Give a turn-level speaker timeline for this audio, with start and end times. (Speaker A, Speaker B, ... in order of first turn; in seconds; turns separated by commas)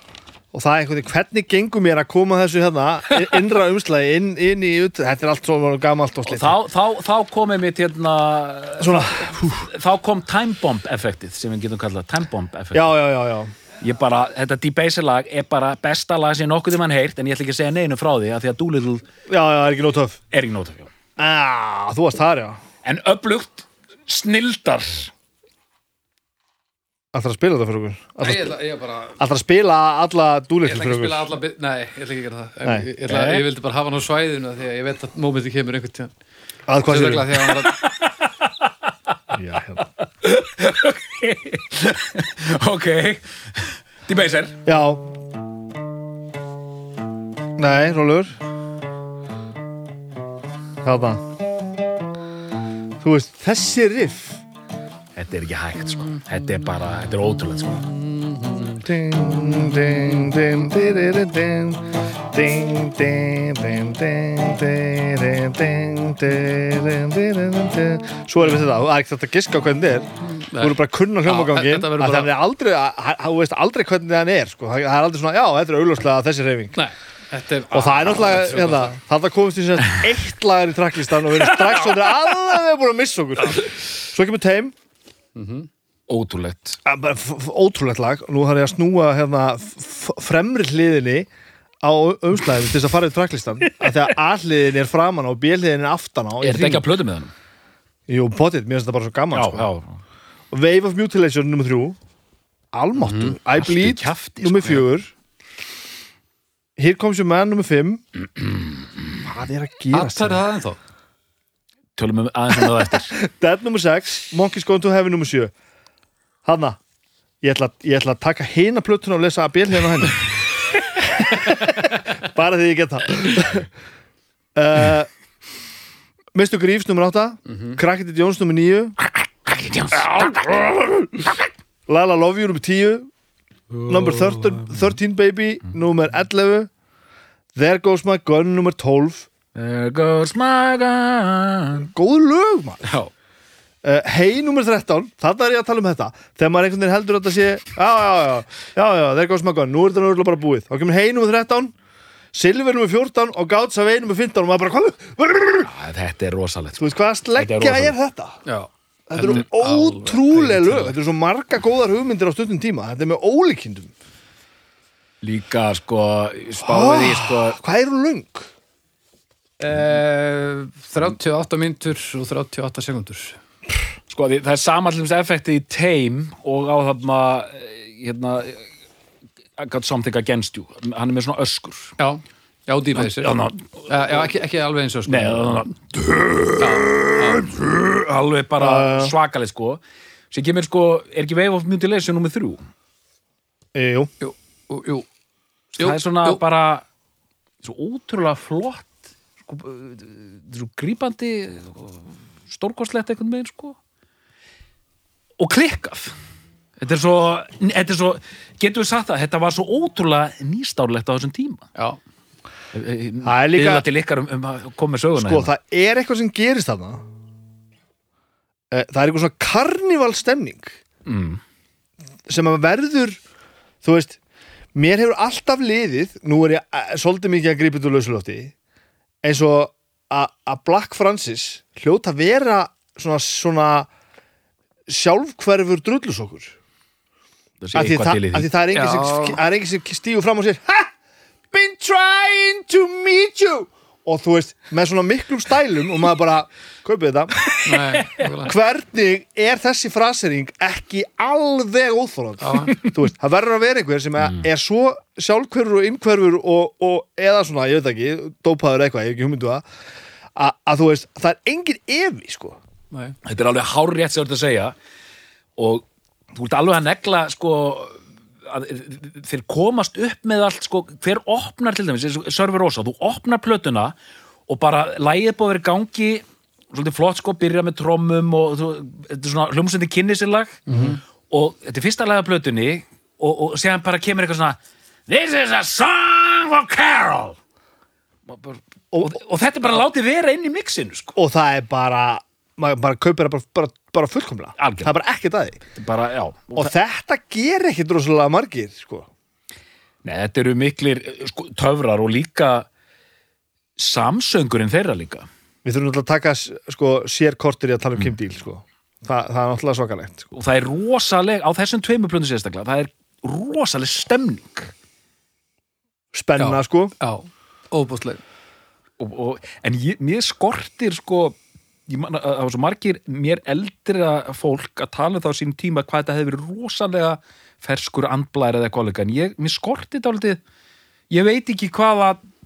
Speaker A: 0.5-6.5, Speaker B: 6.3-12.9, Speaker A: 8.8-9.7, Speaker A: 12.7-13.5, Speaker B: 13.8-19.1, Speaker A: 19.3-20.2, Speaker B: 20.3-20.9, Speaker A: 21.2-22.6, Speaker B: 22.8-25.1, Speaker A: 27.1-28.6, Speaker C: 28.2-29.2, Speaker A: 29.2-31.3, Speaker C: 30.6-36.1, Speaker B: 33.1-33.4, Speaker A: 36.7-37.4, Speaker C: 36.8-37.8, Speaker B: 37.5-38.7, Speaker A: 39.3-39.8, Speaker B: 40.2-44.6, Speaker A: 44.7-45.0, Speaker A: 47.6-48.4, Speaker A: 50.8-51.3, Speaker A: 53.0-54.4, Speaker B: 55.2-57.9, Speaker C: 57.8-58.9, Speaker A: 58.8-76.8, Speaker C: 59.4-60.1, Speaker C: 70.5-72.3, Speaker C: 76.8-78.9, Speaker A: 77.7-84.7, Speaker C: 85.3-85.7, Speaker B: 86.1-86.8, Speaker A: 86.8-91.3, Speaker A: 91.8-96.9, Speaker B: 96.4-97.3, Speaker A: 98.1-99.7, Speaker B: 99.3-100.0, Speaker A: 100.5-102.0, Speaker A: 102.7-105.1, Speaker C: 103.0-103.4, Speaker B: 103.5-104.9, Speaker A: 106.8-108.0, Speaker A: 109.2-110.4, Speaker C: 109.9-110.8, Speaker B: 112.0-113.2, Speaker A: 113.2-115.5, Speaker A: 116.5-116.8, Speaker A: 117.4-120.4, Speaker A: 120.9-123.7, Speaker A: 124.5-125.1, Speaker A: 126.3-129.0, Speaker B: 129.5-130.4, Speaker A: 129.9-131.3, Speaker A: 131.9-133.1, Speaker B: 133.7-134.8, Speaker A: 133.9-136.7, Speaker A: 137.6-139.3, Speaker B: 139.5-141.9, Speaker A: 141.8-142.8, Speaker B: 142.8-143.1, Speaker A: 143.8-151.7, Speaker A: 152.3-155.7, Speaker B: 155.6-157.9, Speaker A: 156.8-158.4, Speaker C: 158.5-161.0, Speaker A: 159.1-163.9, Speaker B: 165.2-167.6, Speaker A: 166.6-168.5, Speaker C: 169.6-173.4, Speaker B: 174.1-178.7, Speaker B: 179.6-181.9, Speaker C: 182.0-185.7, Speaker B: 182.9-183.9, Speaker B: 185.1-192.6, Speaker C: 186.6-187.5, Speaker A: 188.6-189.1, Speaker A: 193.7-194.1, Speaker C: 194.2-195.1, Speaker C: 195.8-196.4, Speaker B: 195.8-196.8, Speaker B: 197.6-203.8, Speaker B: 205.4-206.2, Speaker B: 206.8-211.7, Speaker B: 212.7-215.5, Speaker A: 213.2-213.9, Speaker A: 215.2-217.0, Speaker A: 218.7-220.8, Speaker B: 221.1-221.4, Speaker A: 222.3-223.2, Speaker A: 223.8-224.2, Speaker A: 224.8-228.5, Speaker A: 229.2-233.9, Speaker A: 234.9-236.6, Speaker B: 237.6-238.5, Speaker A: 237.7-240.9, Speaker C: 238.7-239.4, Speaker A: 241.5-247.5, Speaker C: 247.6-248.6, Speaker A: 248.4-259.6, Speaker C: 252.4-252.7, Speaker A: 260.4-262.6, Speaker B: 263.2-264.7, Speaker B: 265.6-273.9, Speaker B: 274.5-280.7, Speaker C: 280.7-281.0, Speaker A: 280.7-281.0, Speaker B: 281.3-287.4, Speaker B: 288.3-291.2, Speaker A: 288.9-289.2, Speaker A: 291.2-295.6, Speaker B: 294.6-294.9, Speaker B: 295.7-296.7, Speaker A: 296.6-299.1, Speaker B: 300.0-302.7, Speaker B: 303.8-305.3, Speaker A: 305.6-310.3, Speaker B: 310.3-314.7, Speaker A: 316.1-316.9, Speaker C: 316.4-318.2, Speaker B: 319.0-330.4, Speaker B: 331.1-332.2